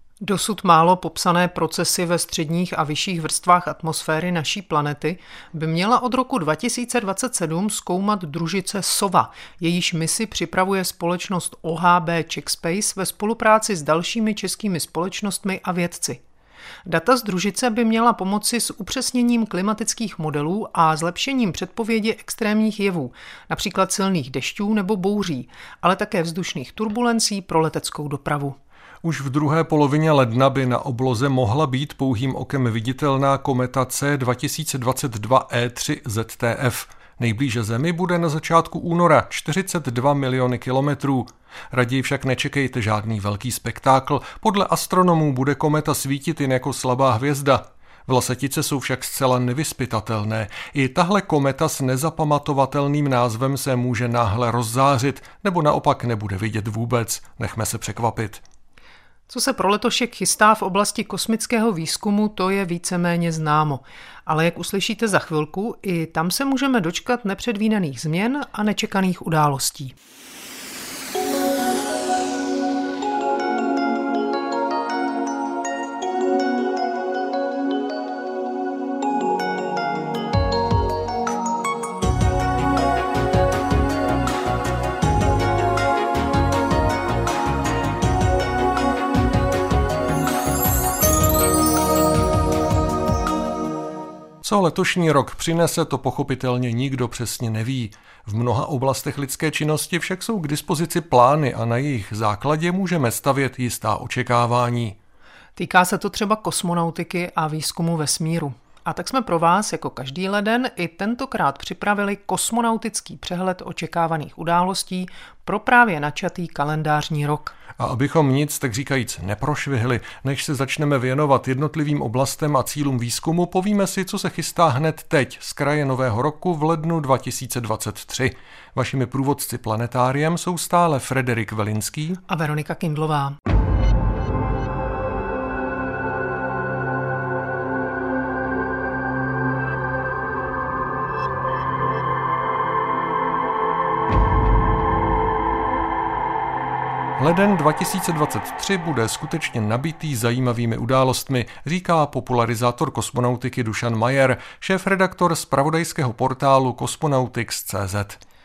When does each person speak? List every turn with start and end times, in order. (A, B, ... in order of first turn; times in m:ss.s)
0:00.2-0:16.2 A
0:16.8-0:28.6 A
0:29.0-0:58.4 B
0:59.3-1:09.9 A
1:34.4-1:45.0 B
1:45.6-1:57.5 A
1:57.8-2:12.2 B
2:12.3-2:13.4 A
2:27.2-2:38.2 B